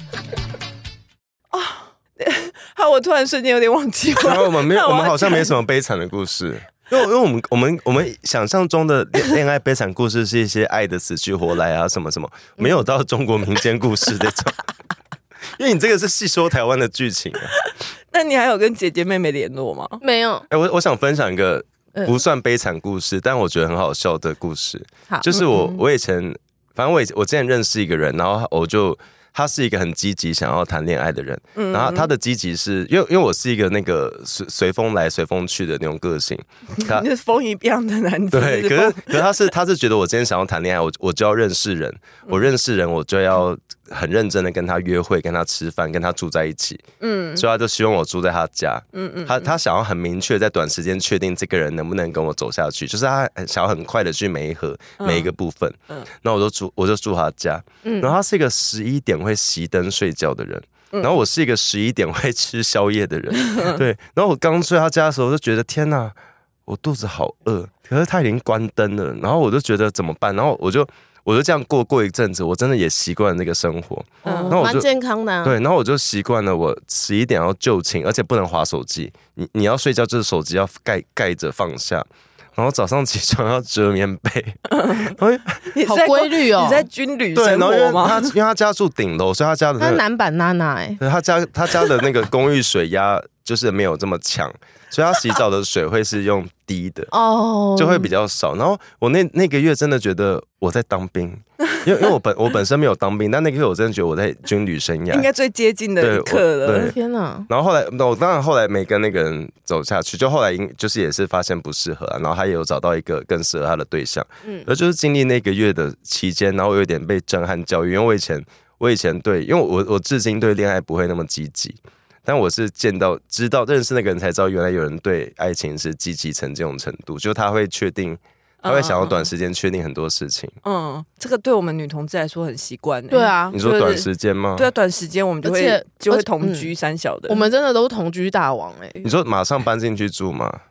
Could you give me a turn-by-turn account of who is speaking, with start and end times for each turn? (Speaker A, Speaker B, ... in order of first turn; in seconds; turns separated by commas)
Speaker A: 1.5-5.5, Speaker B: 4.2-14.6, Speaker B: 15.6-17.6, Speaker A: 17.6-20.0, Speaker C: 20.0-20.5, Speaker B: 20.5-37.1, Speaker A: 25.3-25.8, Speaker A: 31.6-32.1, Speaker A: 36.8-39.4, Speaker B: 38.3-46.8, Speaker A: 47.0-47.5, Speaker B: 47.4-66.2, Speaker A: 48.9-49.6, Speaker A: 55.0-55.3, Speaker C: 57.8-58.1, Speaker A: 63.4-63.8, Speaker B: 66.7-74.9, Speaker A: 74.2-74.6, Speaker C: 74.2-75.6, Speaker B: 75.4-85.7, Speaker A: 84.7-85.2, Speaker A: 85.7-88.3, Speaker C: 85.8-86.9, Speaker B: 87.3-90.0, Speaker C: 89.8-91.0, Speaker B: 91.0-97.1, Speaker C: 97.1-98.1, Speaker B: 97.8-105.3, Speaker A: 105.1-107.0, Speaker B: 106.0-107.0, Speaker C: 106.8-107.5, Speaker B: 107.5-130.6, Speaker A: 128.6-129.3, Speaker A: 130.6-137.5, Speaker C: 133.1-133.6, Speaker B: 133.5-134.7, Speaker C: 135.4-136.7, Speaker C: 137.3-139.1, Speaker B: 139.0-140.6